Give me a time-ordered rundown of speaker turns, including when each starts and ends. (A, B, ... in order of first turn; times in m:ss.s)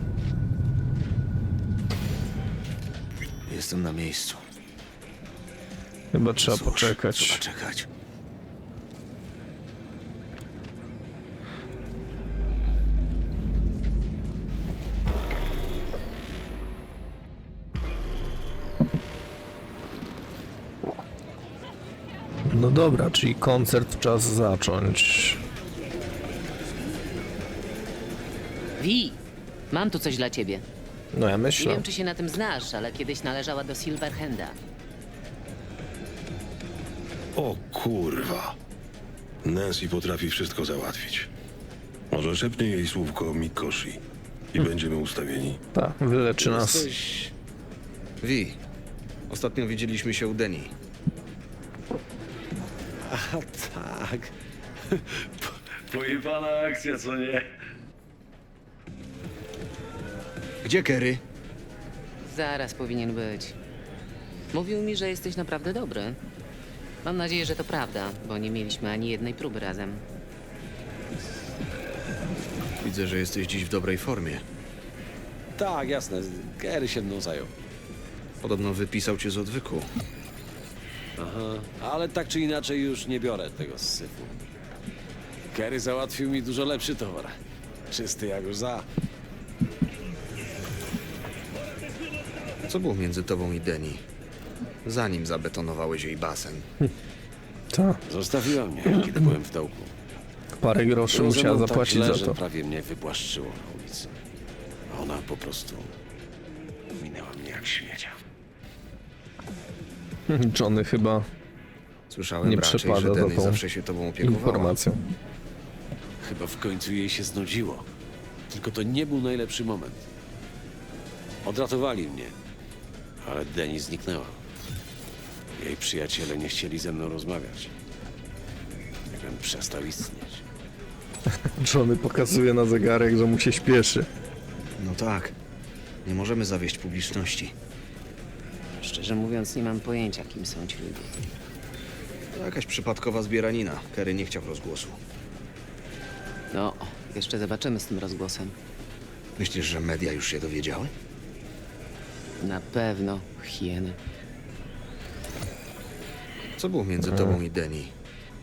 0:03.5-0:04.4 A
0:06.1-0:07.4 B
0:06.4-0:07.9 A
0:22.5-0:25.4 B
0:28.8-0:29.2 C
0:29.7-0:30.6 C
0:31.1-0:31.8 B
0:31.6-0:34.6 C
0:37.4-0:38.6 D
0:39.4-0:41.3 D
0:42.1-0:44.0 D
0:44.5-0:45.6 D
0:45.7-0:46.9 B
0:46.4-0:47.3 E
0:48.2-0:48.6 A
0:49.3-0:50.7 A
0:53.0-0:54.3 E
0:54.9-0:57.5 E
1:00.6-1:01.2 A
1:02.2-1:03.6 C
1:04.5-1:06.2 C
1:07.0-1:10.0 C
1:12.8-1:14.4 A
1:15.6-1:17.5 E
1:18.4-1:19.9 A
1:21.2-1:24.3 E
1:25.5-1:27.4 E
1:27.9-1:28.9 E
1:32.7-1:34.0 A
1:34.8-1:36.7 A
1:37.7-1:38.0 B
1:38.1-1:39.9 E
1:40.6-1:42.4 B
1:41.1-1:44.1 E
1:44.9-1:45.9 E
1:47.0-1:48.2 E
1:50.3-1:51.3 B
1:52.1-1:54.8 A
1:52.4-1:53.6 B
1:54.2-1:55.0 B
1:56.2-1:57.9 E
1:58.5-2:00.0 E
2:01.4-2:02.3 E
2:03.2-2:04.4 E
2:05.6-2:07.7 E
2:09.1-2:10.4 E
2:11.6-2:14.1 B
2:14.8-2:15.4 A
2:16.0-2:17.6 A
2:18.8-2:21.1 C
2:22.3-2:25.0 A
2:26.5-2:28.6 C
2:29.4-2:30.9 A
2:32.4-2:34.0 C
2:36.6-2:37.9 A
2:37.0-2:37.4 B